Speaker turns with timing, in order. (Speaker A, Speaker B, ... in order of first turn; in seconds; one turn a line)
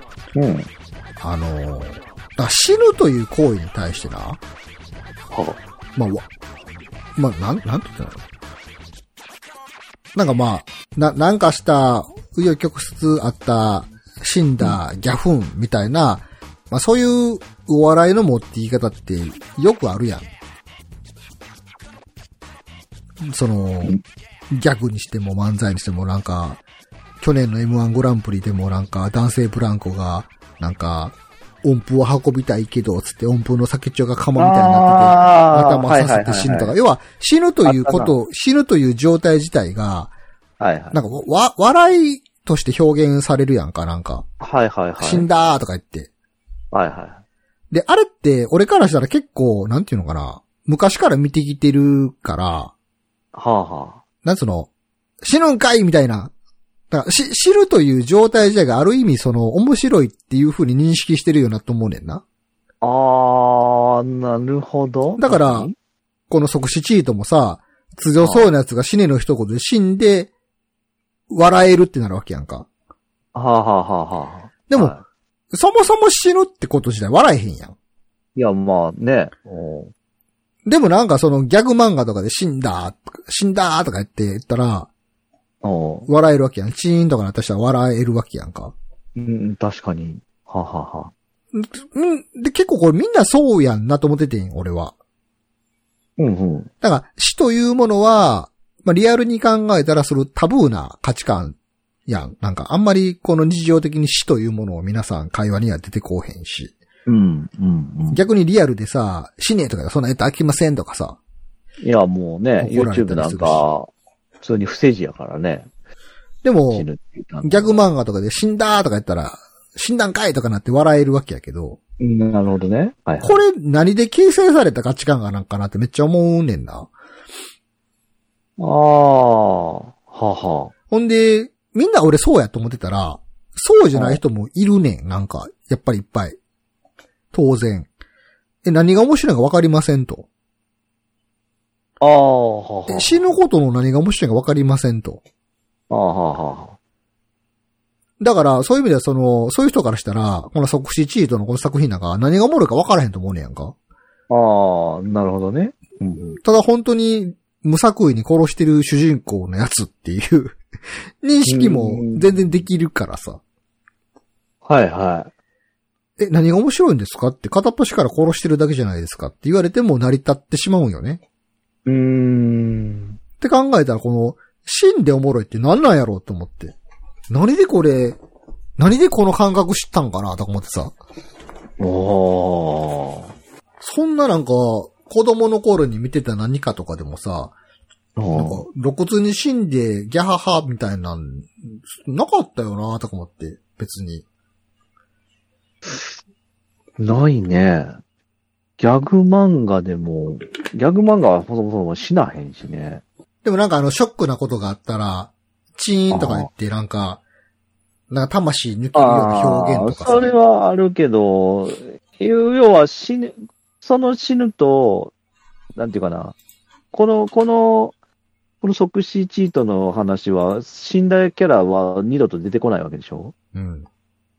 Speaker A: 0.3-0.7
Speaker B: 1.2-4.4
Speaker A: 5.3-5.6
Speaker B: 5.9-6.3
Speaker B: 7.2-8.2
Speaker B: 10.1-20.3
Speaker B: 23.2-24.0
Speaker B: 24.5-26.6
Speaker B: 27.2-40.1
Speaker A: 34.4-36.7
Speaker A: 37.6-38.1
Speaker A: 40.6-41.0
Speaker B: 40.9-44.2
Speaker A: 44.4-45.3
Speaker B: 45.0-46.1
Speaker A: 46.7-47.2
Speaker B: 47.7-52.7
Speaker A: 53.3-54.0
Speaker B: 54.2-54.7
Speaker B: 55.2-56.3
Speaker B: 56.9-62.2
Speaker A: 62.8-65.7
Speaker B: 65.2-65.7
Speaker B: 66.3-70.3
Speaker A: 68.2-68.5
Speaker B: 71.3-72.7
Speaker A: 73.3-75.0
Speaker B: 74.7-74.9
Speaker B: 75.5-77.7
Speaker A: 78.3-79.9
Speaker B: 80.7-84.9
Speaker A: 85.6-86.1
Speaker B: 86.1-88.7
Speaker A: 89.2-91.1
Speaker B: 91.5-94.9
Speaker A: 96.2-96.7
Speaker B: 96.8-106.7
Speaker A: 107.0-108.2
Speaker B: 108.1-111.2
Speaker A: 111.8-113.9
Speaker B: 112.6-113.7
Speaker A: 114.4-115.7
Speaker B: 116.4-116.9
Speaker A: 116.7-117.8
Speaker B: 117.4-121.8
Speaker A: 122.0-123.4
Speaker B: 123.2-126.9
Speaker A: 128.6-130.7
Speaker B: 130.9-136.4
Speaker A: 133.9-134.2
Speaker B: 137.3-137.9
Speaker B: 138.6-140.3
Speaker A: 142.0-143.2
Speaker B: 142.9-145.2
Speaker A: 145.9-146.8
Speaker B: 148.2-153.7
Speaker A: 154.3-156.4
Speaker B: 156.4-160.6
Speaker B: 161.2-163.4
Speaker A: 161.4-162.3
Speaker A: 164.6-165.3
Speaker B: 166.2-171.2
Speaker A: 171.8-173.2
Speaker B: 173.4-176.7
Speaker B: 177.3-178.2
Speaker B: 178.8-180.9
Speaker A: 181.8-183.3
Speaker B: 183.8-187.6
Speaker A: 188.2-188.7
Speaker B: 188.3-194.2
Speaker A: 195.8-196.1
Speaker A: 197.0-197.9
Speaker A: 198.8-203.0
Speaker B: 203.4-207.2
Speaker A: 206.1-206.5
Speaker B: 208.1-210.3
Speaker A: 208.9-215.1
Speaker A: 215.8-216.3
Speaker A: 216.9-217.9
Speaker A: 218.6-223.3
Speaker B: 223.5-223.9